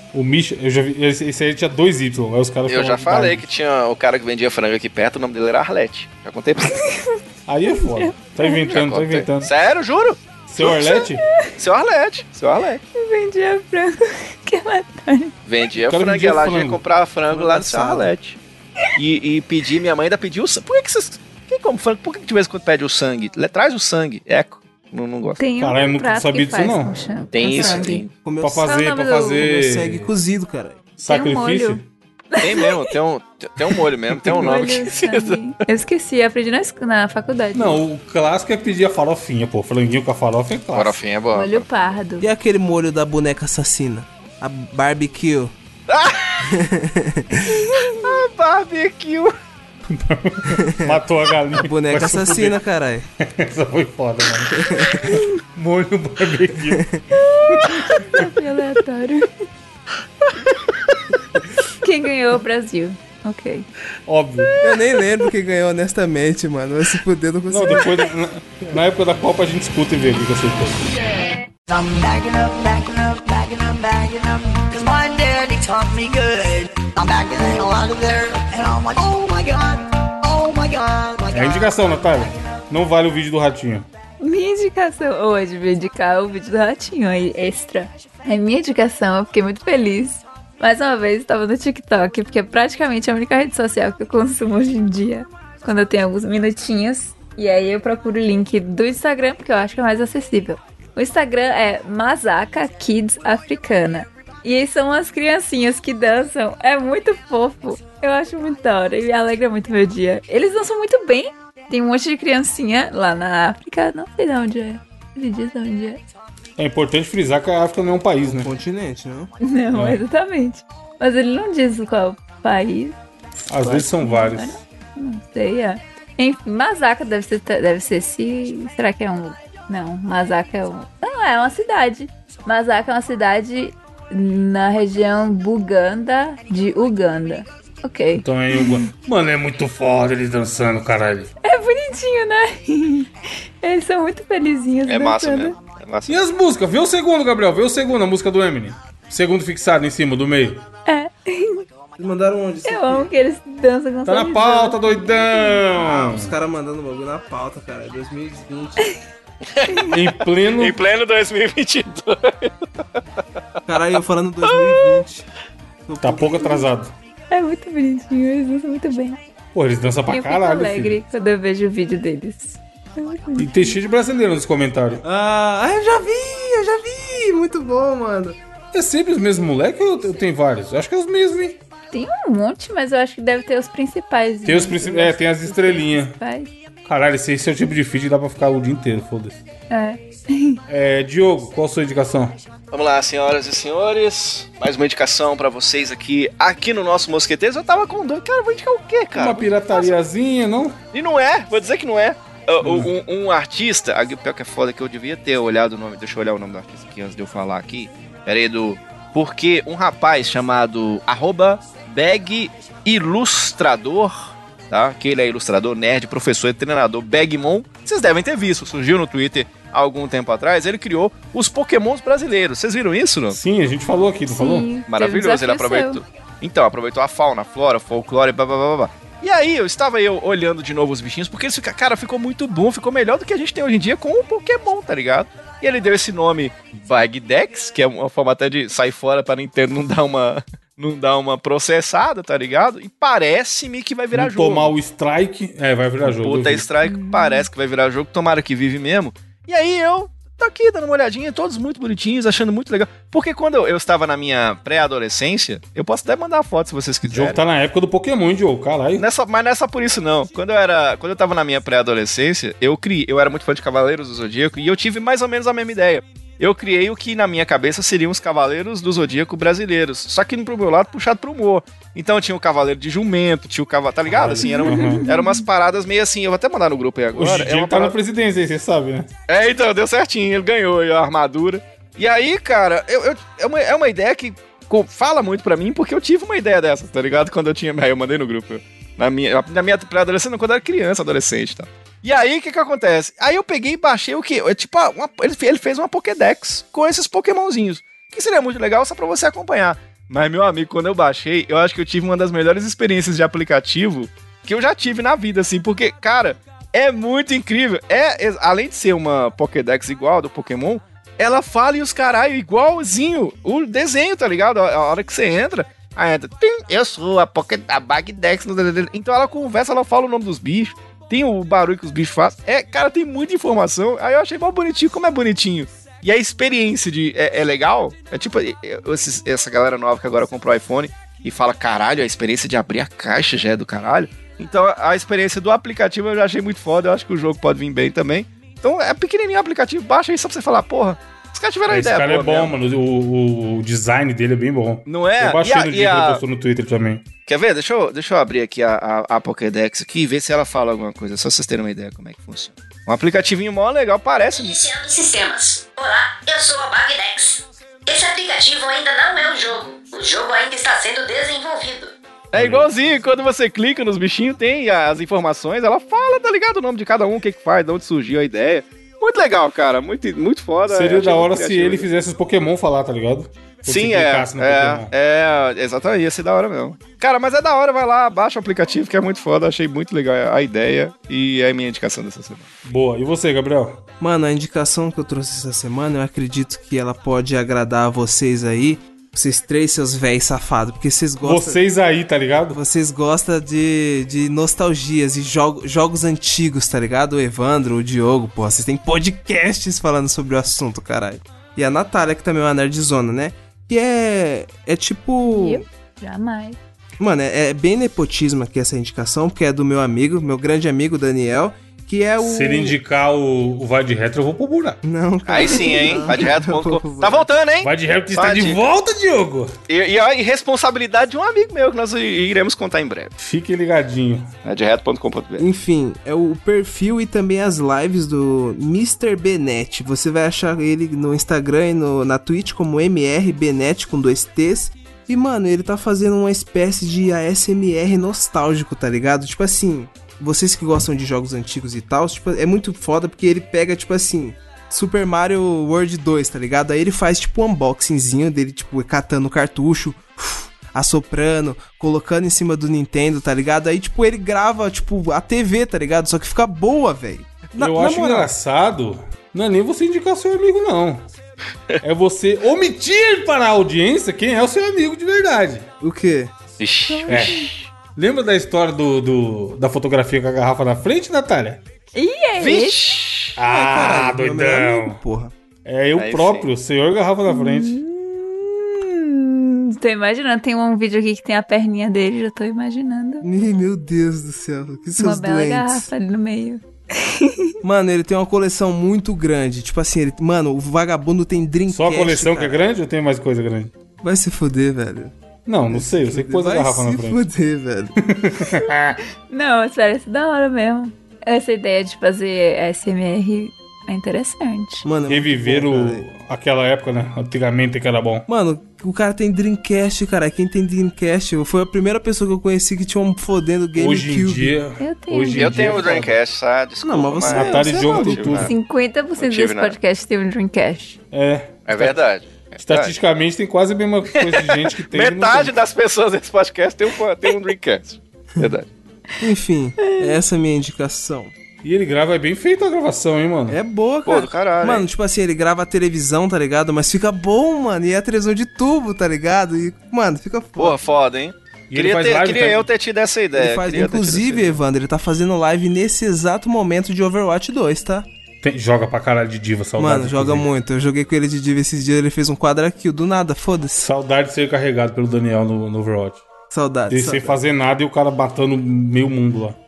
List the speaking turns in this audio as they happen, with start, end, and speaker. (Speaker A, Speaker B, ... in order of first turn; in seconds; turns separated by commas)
Speaker A: 0.1-3.5, Speaker B: 2.7-6.8, Speaker C: 6.7-7.2, Speaker A: 7.5-9.5, Speaker C: 7.8-8.6, Speaker B: 8.6-10.9, Speaker A: 10.5-11.2, Speaker C: 10.6-11.5, Speaker B: 11.6-12.8, Speaker C: 12.9-15.3, Speaker B: 15.5-18.4, Speaker A: 15.8-16.8, Speaker D: 17.3-18.1, Speaker B: 18.9-25.4, Speaker C: 25.4-28.1, Speaker A: 25.6-26.9, Speaker B: 27.3-28.1, Speaker D: 28.2-28.8, Speaker A: 28.4-30.1, Speaker C: 28.6-29.4, Speaker D: 29.3-30.8, Speaker A: 31.0-31.8, Speaker C: 31.1-32.9, Speaker B: 32.4-35.5, Speaker C: 34.2-37.8, Speaker A: 37.5-41.0, Speaker B: 40.7-41.8, Speaker C: 41.3-42.3, Speaker D: 42.2-45.5, Speaker B: 45.9-46.5, Speaker D: 46.4-47.7, Speaker C: 47.5-48.1, Speaker B: 48.0-49.3, Speaker A: 49.9-52.6, Speaker D: 50.6-51.0, Speaker D: 51.5-53.1, Speaker A: 53.2-56.9, Speaker D: 54.5-55.2, Speaker D: 56.7-57.0, Speaker C: 57.2-59.3, Speaker A: 57.5-58.3, Speaker C: 60.3-60.5, Speaker C: 61.7-63.7, Speaker A: 64.1-64.5, Speaker D: 64.6-68.1, Speaker A: 67.5-70.9, Speaker E: 71.8-79.8, Speaker E: 80.3-81.4, Speaker A: 81.3-83.9, Speaker C: 84.2-116.0, Speaker A: 116.6-118.5, Speaker D: 118.2-119.3, Speaker C: 119.4-138.9, Speaker A: 119.7-120.0, Speaker A: 123.5-124.6, Speaker A: 138.2-141.3, Speaker C: 141.4-145.6, Speaker B: 144.9-146.2, Speaker A: 146.1-150.7, Speaker C: 150.9-151.7, Speaker D: 152.0-153.1, Speaker C: 152.7-155.7, Speaker A: 154.1-156.3, Speaker D: 155.7-159.0, Speaker B: 159.5-162.7, Speaker A: 159.8-160.8, Speaker D: 163.7-165.3, Speaker B: 164.4-165.0, Speaker D: 165.9-166.7, Speaker A: 166.0-166.9, Speaker C: 167.3-169.2, Speaker A: 169.5-171.0, Speaker C: 170.1-173.8, Speaker A: 173.4-175.0, Speaker D: 175.0-178.4, Speaker A: 178.7-181.6, Speaker C: 181.9-186.5, Speaker A: 184.4-186.2, Speaker A: 186.8-189.4, Speaker C: 189.7-190.6, Speaker A: 190.7-192.4, Speaker B: 192.7-199.9, Speaker A: 199.1-200.8, Speaker B: 200.9-223.4, Speaker A: 202.6-202.9, Speaker A: 223.3-224.7, Speaker C: 224.3-226.0, Speaker B: 224.9-244.7, Speaker A: 244.1-246.7, Speaker B: 246.0-257.4, Speaker C: 246.8-247.5, Speaker A: 257.0-259.1, Speaker B: 259.0-278.0, Speaker A: 274.1-275.1, Speaker C: 274.4-275.4, Speaker A: 277.1-279.1, Speaker B: 279.3-342.5, Speaker A: 341.7-347.1, Speaker B: 344.9-346.2, Speaker B: 347.3-354.6, Speaker F: 354.4-361.9, Speaker B: 362.3-371.9, Speaker A: 362.3-362.7, Speaker A: 370.7-374.9, Speaker B: 373.7-382.5, Speaker A: 382.6-383.8, Speaker D: 384.0-391.6, Speaker A: 391.2-392.6, Speaker D: 392.5-405.6, Speaker C: 405.3-406.6, Speaker D: 407.0-412.8, Speaker A: 412.2-414.8, Speaker D: 414.8-417.3, Speaker B: 415.3-418.6, Speaker A: 417.6-419.5, Speaker B: 419.7-423.1, Speaker A: 423.2-424.3, Speaker B: 424.4-425.5, Speaker D: 425.4-458.3, Speaker A: 457.6-461.1, Speaker A: 461.8-465.7, Speaker D: 465.8-466.3, Speaker B: 466.6-467.6, Speaker D: 466.9-467.3, Speaker A: 467.1-471.6, Speaker C: 471.9-472.9, Speaker B: 472.4-473.4, Speaker A: 473.4-475.0, Speaker D: 473.5-475.3, Speaker A: 475.6-477.8, Speaker B: 475.9-476.5, Speaker C: 477.3-483.3, Speaker D: 483.2-485.9, Speaker C: 485.0-487.6, Speaker D: 487.6-492.6, Speaker A: 491.7-493.7, Speaker D: 494.0-495.1, Speaker A: 495.5-497.3, Speaker D: 495.7-498.0, Speaker A: 498.1-499.0, Speaker C: 499.3-504.9, Speaker D: 504.8-506.1, Speaker A: 505.1-508.3, Speaker D: 508.3-514.6, Speaker A: 513.8-516.2, Speaker C: 514.8-516.0, Speaker B: 515.4-518.5, Speaker D: 516.8-518.5, Speaker A: 517.3-518.5, Speaker C: 518.4-521.0, Speaker B: 519.2-519.8, Speaker A: 521.1-522.1, Speaker B: 521.7-523.0, Speaker A: 522.6-525.6, Speaker B: 524.1-528.7, Speaker D: 529.2-531.3, Speaker C: 529.8-530.2, Speaker A: 531.6-533.6, Speaker D: 533.5-540.8, Speaker B: 534.0-534.9, Speaker B: 540.6-544.6, Speaker A: 541.7-542.7, Speaker D: 543.3-548.1, Speaker A: 548.4-550.5, Speaker D: 549.8-553.9, Speaker A: 553.8-556.2, Speaker D: 556.5-557.4, Speaker A: 556.9-559.6